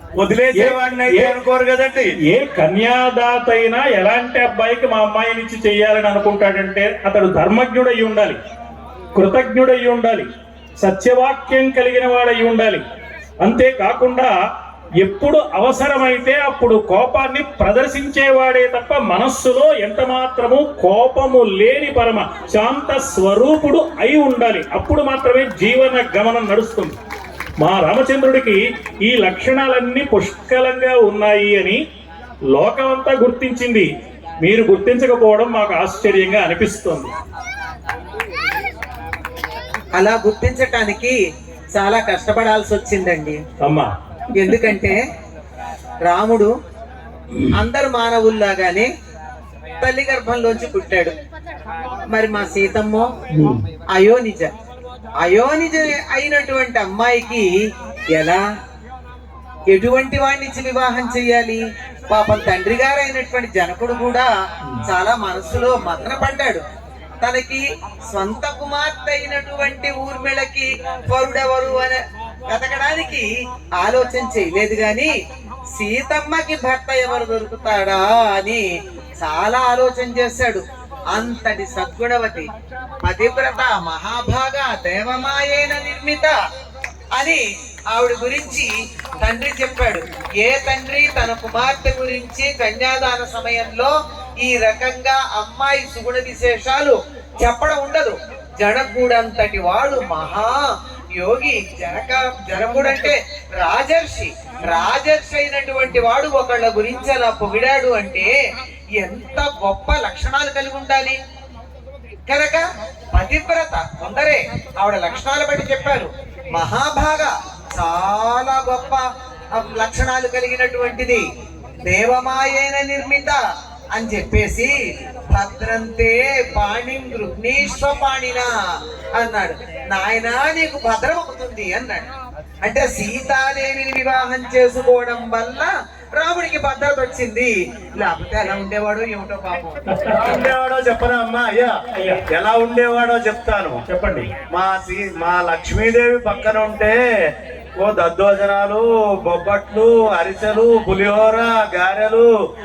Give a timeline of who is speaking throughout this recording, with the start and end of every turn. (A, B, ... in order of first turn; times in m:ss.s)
0:00.2-0:02.1 A
0:00.6-0:01.4 B
0:02.3-0:08.4 B
0:09.2-0:10.3 B
0:10.8-0:12.8 B
0:13.4-0:14.3 B
0:15.0-0:26.9 B
0:27.6-0:31.8 B
0:32.6-0:33.9 B
0:34.4-0:37.1 B
0:40.0-0:41.2 C
0:41.7-0:43.4 C
0:43.6-0:43.9 B
0:44.4-0:45.0 C
0:46.0-0:46.5 C
0:47.5-0:48.9 C
0:49.8-0:51.2 C
0:52.1-0:53.1 C
0:53.3-0:53.6 B
0:53.9-0:54.5 C
0:55.2-0:57.5 C
0:58.1-0:58.4 C
0:59.7-1:04.3 C
1:04.8-1:06.6 C
1:07.2-1:13.3 C
1:13.8-1:15.1 C
1:15.7-1:18.6 C
1:19.2-1:20.6 C
1:21.1-1:22.5 C
1:23.0-1:26.4 C
1:27.2-1:27.4 C
1:27.9-1:48.3 C
1:49.0-1:51.2 C
1:52.3-1:52.6 C
1:53.1-1:59.0 C
1:59.5-2:01.2 C
2:01.8-2:03.4 C
2:03.9-2:04.7 C
2:05.3-2:08.5 C
2:09.2-2:12.1 C
2:12.6-2:19.8 C
2:19.9-2:20.2 B
2:20.1-2:21.7 A
2:22.0-2:22.2 B
2:22.3-2:23.8 A
2:23.9-2:24.3 B
2:24.5-2:27.0 A
2:27.8-2:32.3 A